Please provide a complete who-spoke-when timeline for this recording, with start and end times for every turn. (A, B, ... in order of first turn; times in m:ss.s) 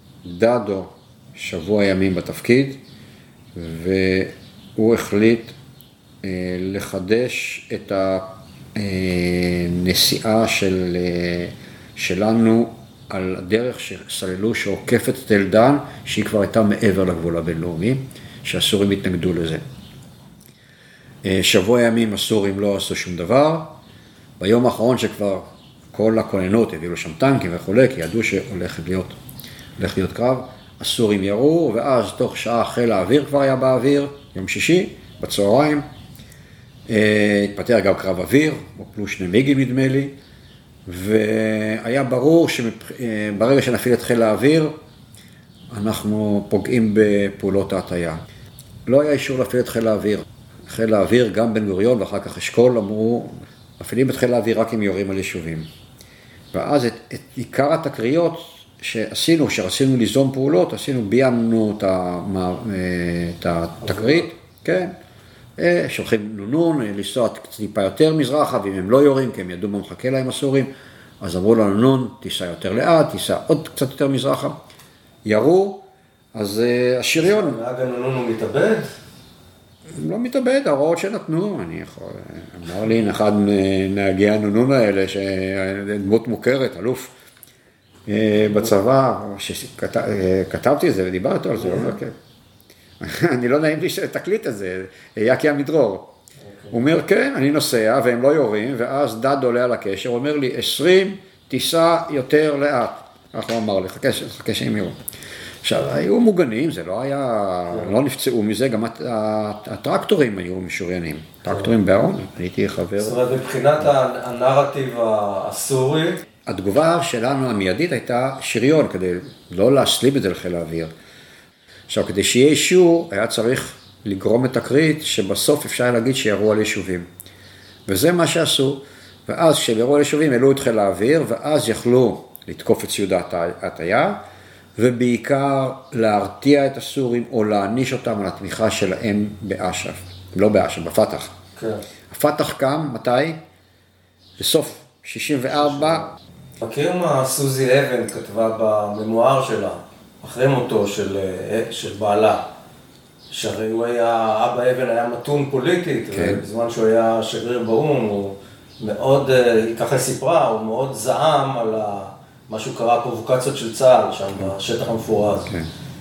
0:00.2-0:02.8 A
0:03.5-0:05.5 A
0:06.2-0:19.6 A
0:21.2-0:23.7 A
0:24.4-0:29.1 A
0:29.8-0:35.8 A
0:36.9-0:40.1 A
0:40.9-0:44.7 A
0:45.7-0:48.2 A
0:48.8-0:55.7 A
0:56.5-1:04.9 A
1:03.8-1:04.2 B
1:05.6-1:14.5 A
1:15.2-1:15.8 A
1:16.3-1:17.6 A
1:17.1-1:18.9 B
1:19.9-1:27.1 A
1:28.1-1:32.1 A
1:31.6-1:31.9 B
1:33.0-1:36.1 A
1:36.4-1:36.7 B
1:36.7-1:45.0 A
1:45.6-1:53.2 A
1:53.0-1:56.2 B
1:56.4-2:00.9 A
2:01.9-2:07.1 A
2:07.9-2:14.2 A
2:14.8-2:21.3 A
2:21.6-2:21.8 B
2:22.1-2:23.4 A
2:24.4-2:26.1 A
2:25.6-2:26.0 B
2:26.6-2:32.4 B
2:33.3-2:45.5 B
2:36.1-2:36.4 A